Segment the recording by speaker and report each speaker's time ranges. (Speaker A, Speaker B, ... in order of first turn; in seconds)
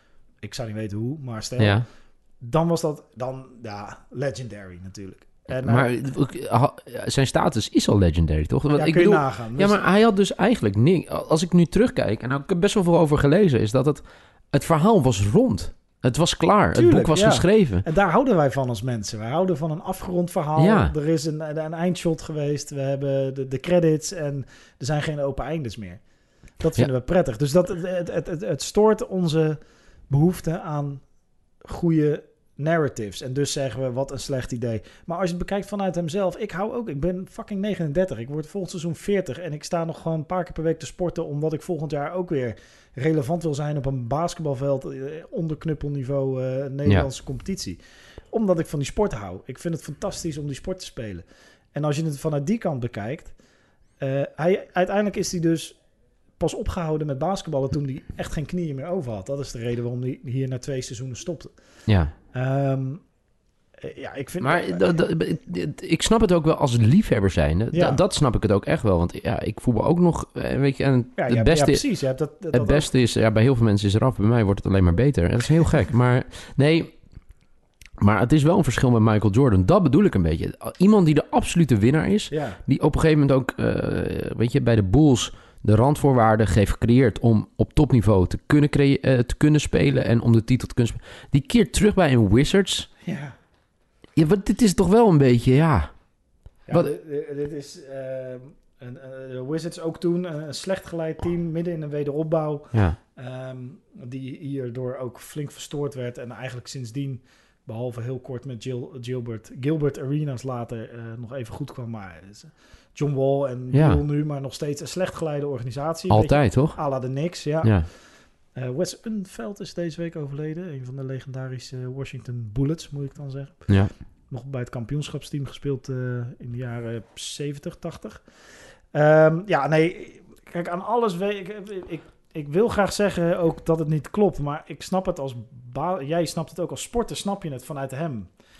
Speaker A: 0.4-5.9, 8.7-9.8, 16.7-63.2, 63.8-65.1, 67.7-68.0, 71.2-72.9, 82.3-82.6, 93.0-93.3, 96.7-138.3
Speaker B: 1.6-1.9, 5.6-17.8, 20.6-20.9, 61.9-62.1, 64.4-76.9, 78.0-92.9, 94.2-96.9, 102.7-103.0, 113.7-114.0, 116.1-117.0, 117.6-117.9